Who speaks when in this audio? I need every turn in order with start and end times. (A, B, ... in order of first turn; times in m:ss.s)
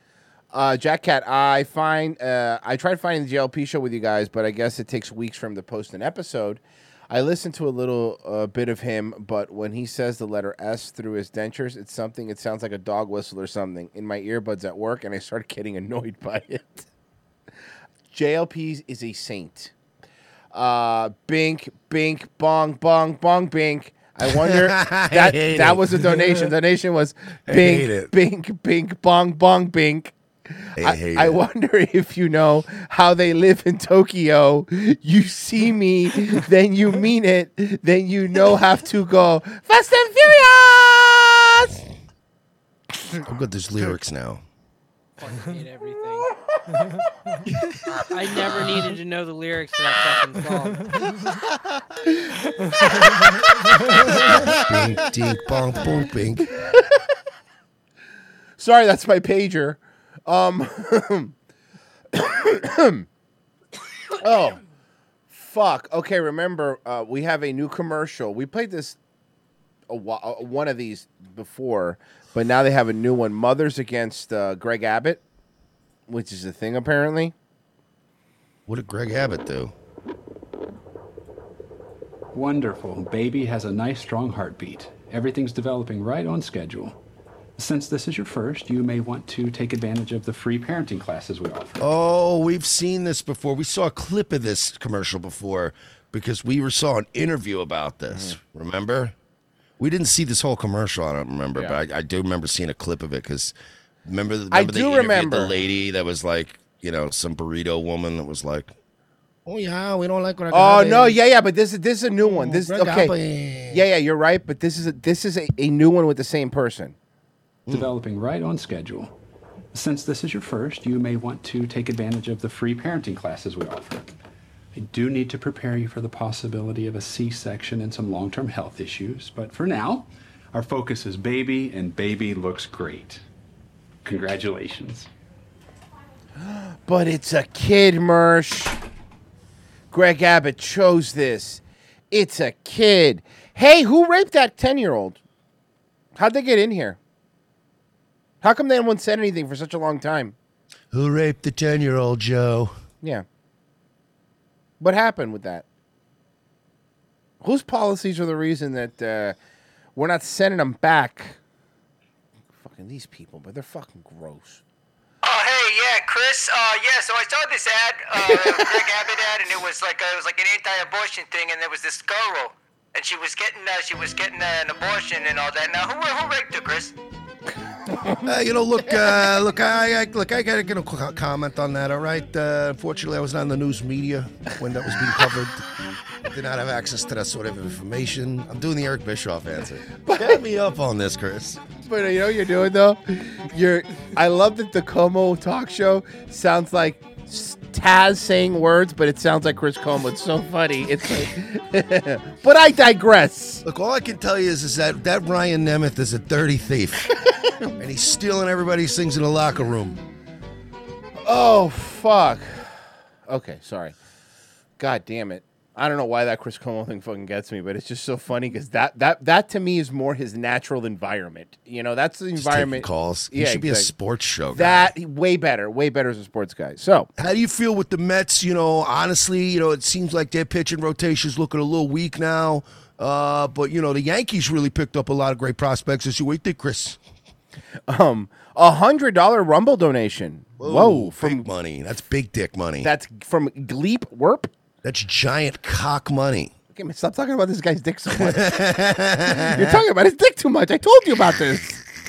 0:00.5-0:16.8 A
0:18.1-0:19.7 A
0:20.5-0:30.1 A
0:24.2-0:26.5 B
0:27.5-0:28.1 B
0:30.8-0:31.4 B
0:30.8-0:41.8 A
0:43.2-0:44.4 B
0:45.2-0:46.3 C
0:48.1-0:51.2 C
0:54.5-0:56.5 B
0:58.6-1:01.3 A
1:02.1-1:03.0 A
1:04.2-1:04.6 A
1:05.3-1:09.0 A
1:09.9-1:15.2 A
1:16.1-1:17.3 A
1:18.7-1:19.7 B
1:22.3-1:27.0 D
1:27.6-1:31.8 D
1:31.8-1:39.1 B
1:38.1-1:38.4 A
1:39.8-1:43.5 B
1:41.5-1:41.8 A
1:44.0-1:48.7 B
1:44.5-1:45.6 A
1:49.4-1:51.2 B
1:50.5-1:53.1 A
1:52.2-1:53.8 B
1:53.7-1:56.9 A
1:57.7-1:59.1 D
1:59.7-2:04.1 D
2:04.7-2:13.2 D
2:14.0-2:15.1 D
2:16.4-2:18.8 A
2:19.9-2:25.2 A
2:26.2-2:27.0 A
2:28.4-2:30.3 A
2:30.9-2:32.8 B
2:34.8-2:35.6 A
2:37.4-2:39.4 A
2:40.0-2:41.4 A
2:42.6-2:44.6 A
2:45.2-2:56.9 E
2:48.2-2:48.8 A
2:58.2-3:05.6 B
3:06.2-3:11.6 B
3:10.0-3:10.4 A
3:11.8-3:23.6 A
3:23.6-3:27.0 B
3:27.8-3:30.0 B
3:31.2-3:32.7 A
3:33.3-3:33.9 A
3:34.8-3:43.9 A
3:42.4-3:44.9 B
3:44.5-3:47.1 A
3:47.2-3:57.0 B
3:57.9-4:01.5 A
4:00.6-4:02.9 B
4:02.8-4:04.5 A
4:04.8-4:06.5 B
4:06.7-4:08.6 A
4:08.1-4:09.8 B
4:09.3-4:11.8 A